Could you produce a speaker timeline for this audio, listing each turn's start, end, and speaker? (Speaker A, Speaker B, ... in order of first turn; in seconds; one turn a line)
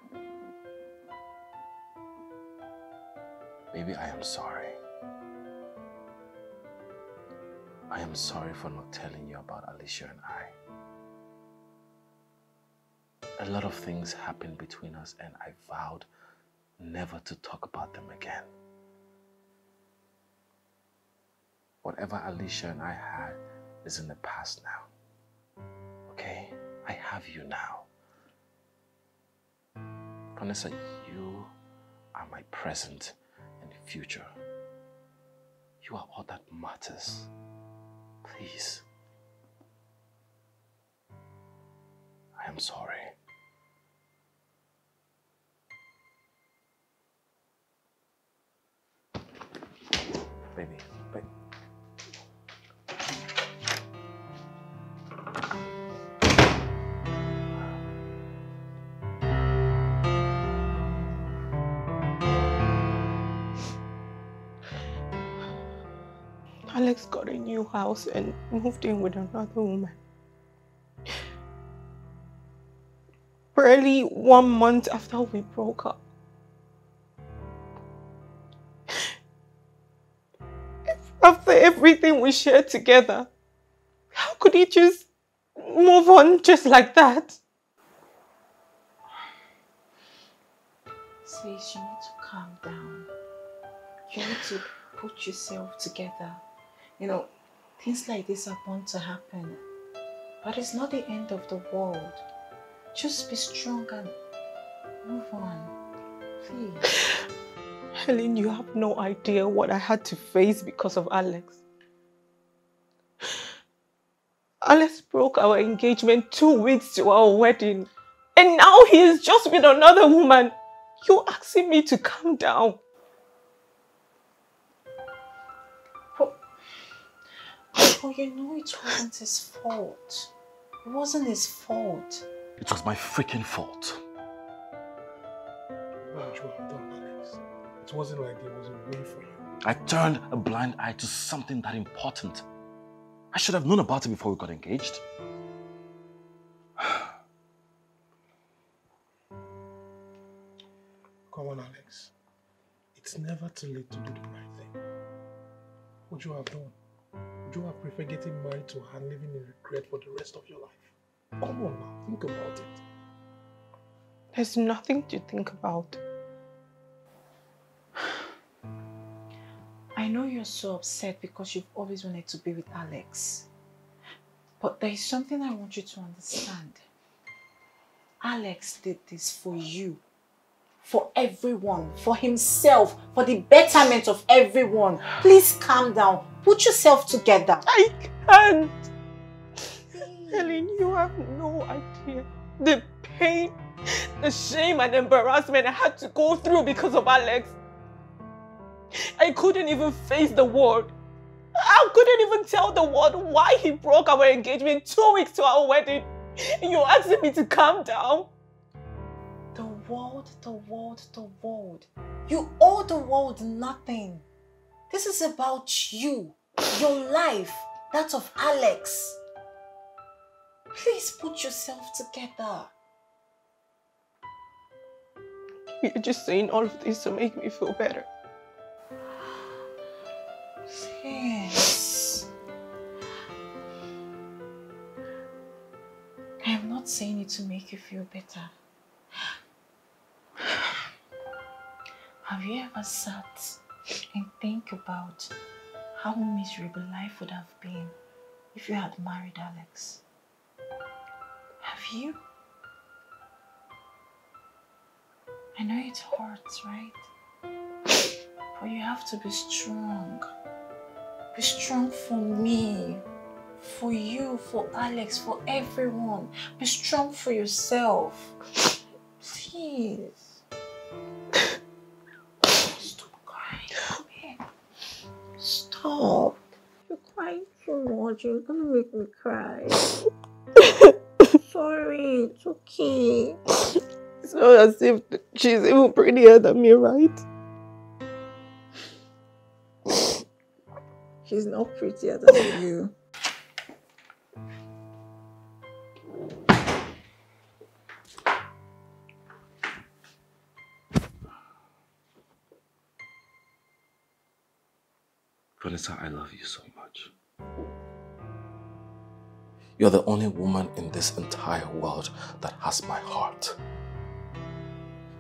Speaker A: 3.7-4.8
Speaker A: 7.9-10.5
Speaker A: 13.4-16.1
Speaker A: 16.8-18.5
Speaker A: 21.8-24.9
Speaker A: 26.1-27.9
Speaker A: 30.4-31.5
Speaker A: 32.1-34.3
Speaker A: 35.8-37.3
Speaker A: 38.2-38.9
Speaker A: 42.4-43.1
Speaker A: 50.5-51.3
Speaker B: 66.7-70.0
Speaker B: 73.5-76.0
Speaker B: 80.9-83.3
Speaker B: 84.1-87.4
Speaker C: 91.2-93.1
Speaker C: 94.1-96.4
Speaker C: 97.0-99.6
Speaker C: 100.4-102.2
Speaker C: 102.9-104.1
Speaker C: 105.0-105.7
Speaker C: 106.4-106.8
Speaker B: 108.0-111.6
Speaker B: 114.6-122.8
Speaker C: 127.7-130.3
Speaker C: 130.8-132.2
Speaker A: 132.6-134.0
Speaker D: 136.1-139.4
Speaker A: 139.6-142.4
Speaker A: 143.3-145.0
Speaker D: 151.3-152.1
Speaker D: 152.9-154.7
Speaker D: 156.1-156.8
Speaker D: 157.5-162.8
Speaker B: 164.3-166.0
Speaker C: 169.9-173.5
Speaker C: 174.6-176.8
Speaker C: 178.2-180.0
Speaker C: 180.8-187.6
Speaker B: 187.6-188.8
Speaker C: 189.9-190.6
Speaker B: 190.3-197.6
Speaker B: 198.9-200.9
Speaker B: 201.6-208.3
Speaker C: 209.5-214.2
Speaker C: 214.9-219.2
Speaker C: 220.7-222.7
Speaker B: 225.8-228.1
Speaker C: 230.7-232.2
Speaker C: 236.4-238.5
Speaker C: 242.2-243.6
Speaker C: 244.1-245.3
Speaker C: 245.9-247.9
Speaker C: 248.5-250.0
Speaker C: 251.6-252.2
Speaker C: 255.6-257.0
Speaker C: 258.5-260.3
Speaker C: 261.3-263.0
Speaker C: 263.6-268.4
Speaker C: 269.2-270.4
Speaker C: 272.4-274.4
Speaker C: 275.4-279.9
Speaker C: 281.4-283.4
Speaker B: 284.2-287.2
Speaker C: 291.2-292.9
Speaker A: 305.6-307.1
Speaker A: 309.8-313.6